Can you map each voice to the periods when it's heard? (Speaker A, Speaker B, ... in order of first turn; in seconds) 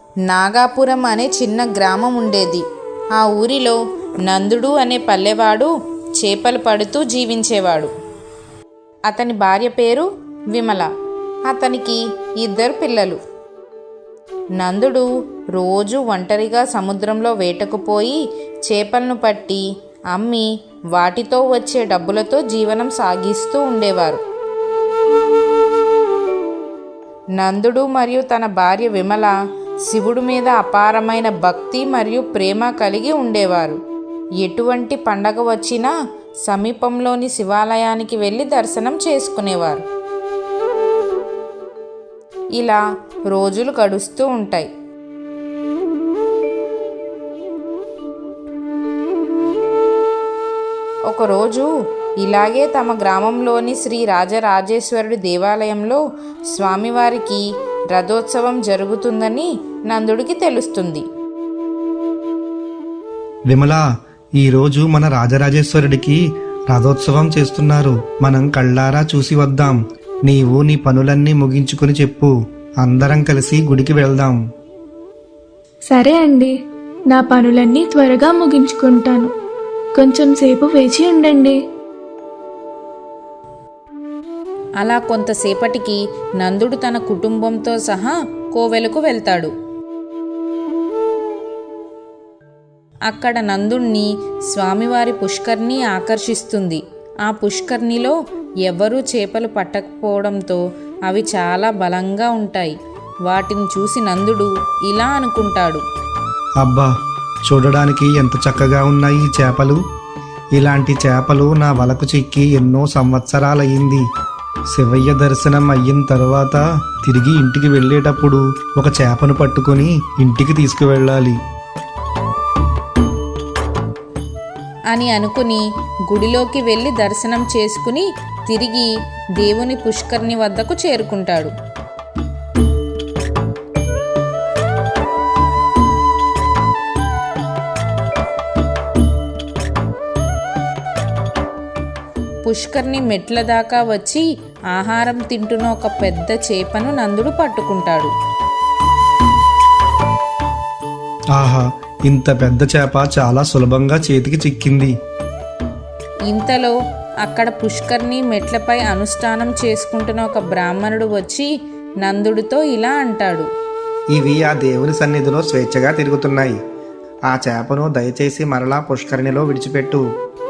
Speaker A: 0.3-2.6, 3.2-7.9, 9.1-10.9, 11.5-13.2, 14.6-24.2, 27.4-29.3, 29.9-33.8, 34.4-35.9, 36.5-39.8, 43.3-44.7, 51.1-51.7, 52.2-56.0, 56.5-61.0, 84.8-89.5, 93.1-98.1, 98.7-102.7, 103.3-105.8, 124.9-131.5, 142.4-148.1, 156.3-161.5, 162.0-163.5
Speaker B: 63.5-63.8, 64.4-66.2, 66.7-74.4, 106.6-106.9, 107.5-109.8, 110.5-114.0, 114.7-121.4, 151.3-154.9, 164.1-166.6, 167.3-170.0
Speaker C: 75.9-76.5, 77.1-79.3, 80.0-81.5